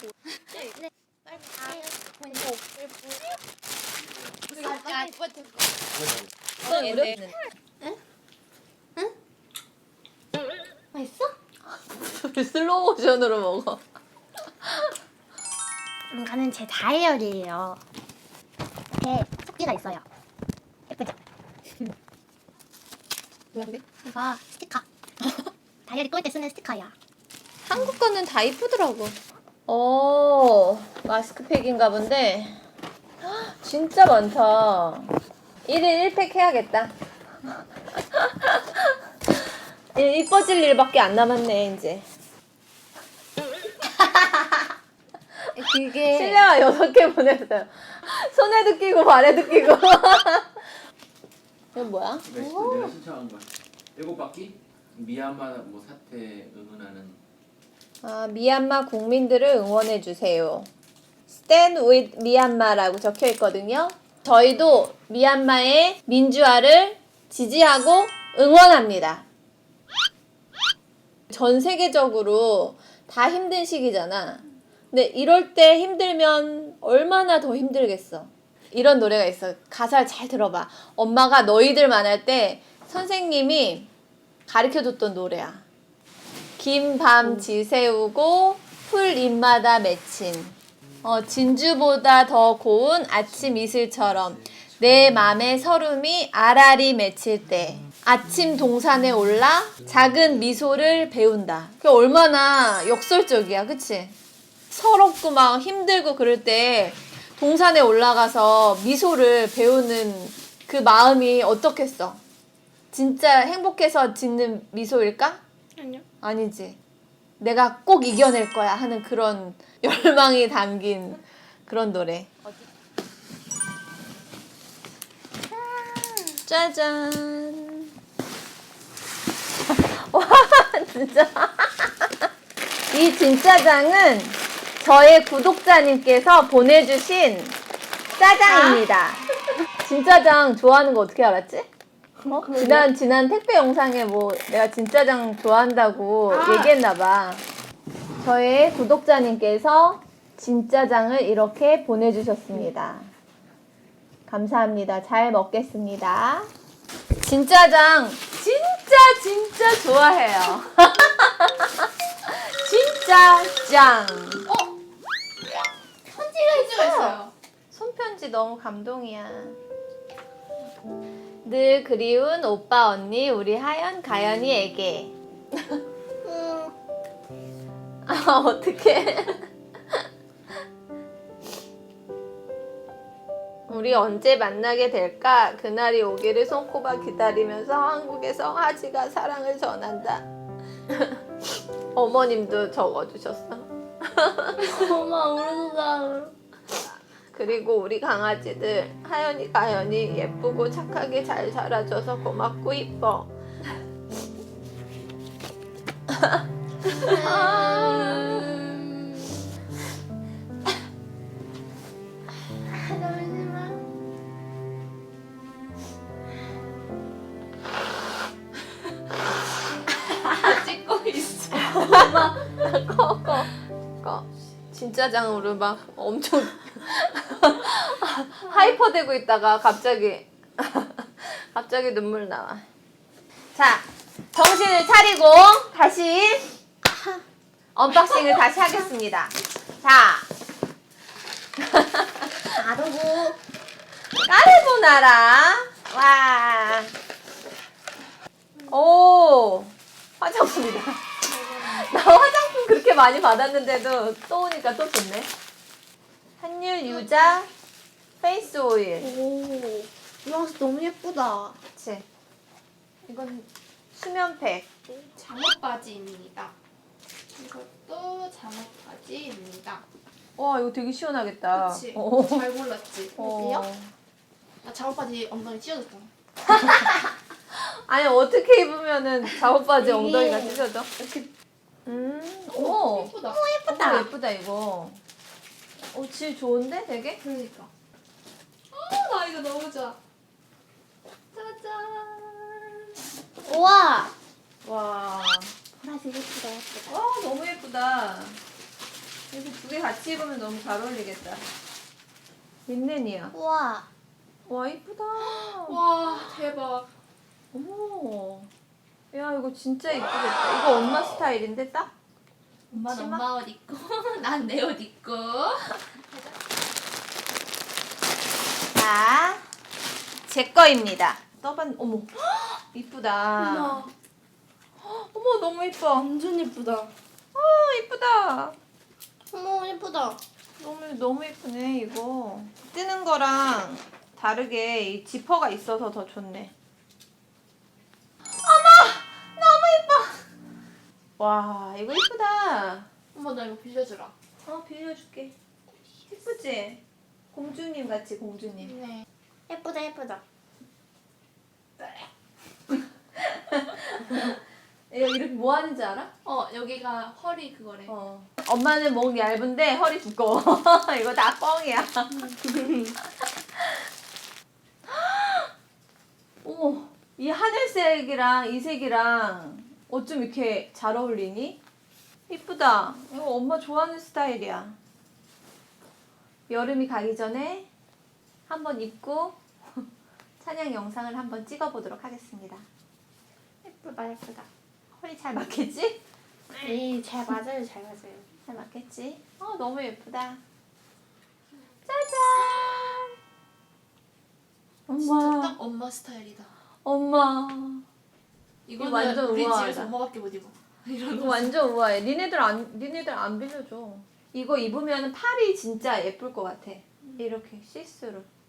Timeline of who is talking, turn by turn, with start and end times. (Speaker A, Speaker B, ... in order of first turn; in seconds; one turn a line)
Speaker A: 0.5-3.3
Speaker B: 4.5-5.1
Speaker A: 4.6-5.6
Speaker C: 6.6-7.4
Speaker A: 6.7-8.0
Speaker A: 10.9-11.3
Speaker C: 11.7-13.8
Speaker A: 16.1-17.8
Speaker A: 19.0-20.0
Speaker A: 23.6-24.8
Speaker A: 25.9-26.9
Speaker C: 27.7-32.6
Speaker C: 33.2-35.1
Speaker C: 35.6-36.9
Speaker C: 38.0-38.9
Speaker C: 39.9-42.1
Speaker A: 45.5-46.4
Speaker C: 46.1-50.7
Speaker C: 51.7-52.3
Speaker D: 52.2-57.2
Speaker A: 52.4-52.9
Speaker C: 58.0-60.7
Speaker C: 61.4-69.2
Speaker C: 71.3-83.9
Speaker C: 84.5-85.6
Speaker C: 86.6-104.2
Speaker C: 104.7-112.2
Speaker C: 112.9-115.4
Speaker A: 115.8-116.0
Speaker C: 116.2-116.8
Speaker C: 117.4-122.3
Speaker A: 125.5-126.4
Speaker C: 126.5-127.9
Speaker C: 129.7-132.1
Speaker C: 132.9-137.6
Speaker C: 138.2-139.2
Speaker C: 139.8-141.7
Speaker C: 142.3-147.4
Speaker A: 142.3-142.8
Speaker B: 146.3-146.7
Speaker C: 148.2-153.1
Speaker C: 154.3-156.5
Speaker C: 157.2-164.5
Speaker B: 164.5-164.8
Speaker B: 166.1-167.3
Speaker A: 166.5-167.2
Speaker C: 167.7-169.6
Speaker C: 171.4-175.2
Speaker A: 176.2-176.7
Speaker C: 178.1-179.5
Speaker C: 183.7-190.2
Speaker C: 191.9-194.6
Speaker A: 194.7-196.3
Speaker C: 197.3-203.3
Speaker C: 207.0-208.3
Speaker A: 207.0-209.3
Speaker A: 212.8-213.8
Speaker B: 220.2-222.3
Speaker C: 221.7-223.5
Speaker C: 224.0-232.7
Speaker C: 233.5-236.6
Speaker A: 236.8-237.2
Speaker C: 237.8-240.3
Speaker C: 241.6-242.3
Speaker A: 242.5-243.4
Speaker C: 244.2-246.9
Speaker C: 248.7-251.0
Speaker B: 251.2-251.9
Speaker C: 251.6-255.3
Speaker C: 256.4-257.5
Speaker B: 256.9-257.4
Speaker C: 258.2-259.1
Speaker A: 259.0-261.6
Speaker C: 261.8-262.1
Speaker C: 263.1-264.7
Speaker B: 265.2-266.5
Speaker B: 267.4-269.9
Speaker C: 270.4-272.4
Speaker B: 271.5-273.7
Speaker C: 273.2-273.9
Speaker B: 274.6-276.1
Speaker C: 276.5-280.9
Speaker A: 279.8-281.3
Speaker C: 281.9-283.1
Speaker B: 282.5-283.4
Speaker A: 283.2-284.1
Speaker C: 283.7-285.0
Speaker C: 285.9-287.2
Speaker B: 287.2-287.7
Speaker B: 288.7-290.0
Speaker C: 291.3-292.9
Speaker A: 293.4-294.1
Speaker C: 294.6-295.6
Speaker A: 295.8-297.0
Speaker C: 296.9-298.4
Speaker C: 299.3-301.4
Speaker C: 302.7-303.3
Speaker A: 303.3-303.9
Speaker C: 304.5-305.8
Speaker B: 305.2-306.9
Speaker C: 307.5-308.5
Speaker C: 309.1-311.9
Speaker B: 312.7-316.4
Speaker C: 312.7-313.2
Speaker C: 318.7-319.5
Speaker C: 320.3-323.9
Speaker B: 323.4-323.9
Speaker C: 324.8-326.1
Speaker B: 326.0-326.9
Speaker C: 327.3-328.6
Speaker A: 329.3-330.2
Speaker C: 330.6-336.5
Speaker C: 338.2-340.2
Speaker C: 341.2-342.9
Speaker B: 343.1-344.1
Speaker C: 344.4-345.3
Speaker C: 346.1-346.8
Speaker C: 347.3-348.7
Speaker B: 348.6-349.1
Speaker A: 349.5-350.2
Speaker C: 352.7-356.1
Speaker B: 356.2-357.9
Speaker C: 357.9-362.4
Speaker B: 362.2-363.0
Speaker C: 364.9-365.5
Speaker C: 366.4-371.6
Speaker C: 372.3-374.8
Speaker C: 376.5-377.7
Speaker C: 378.5-379.8
Speaker C: 380.4-382.6
Speaker A: 383.6-384.5
Speaker C: 385.0-386.0
Speaker A: 386.6-388.3
Speaker C: 388.5-390.4
Speaker C: 391.9-393.1
Speaker C: 394.9-395.6
Speaker B: 395.0-396.5
Speaker C: 396.8-397.9
Speaker B: 398.7-401.6
Speaker C: 398.8-399.9
Speaker C: 401.1-408.3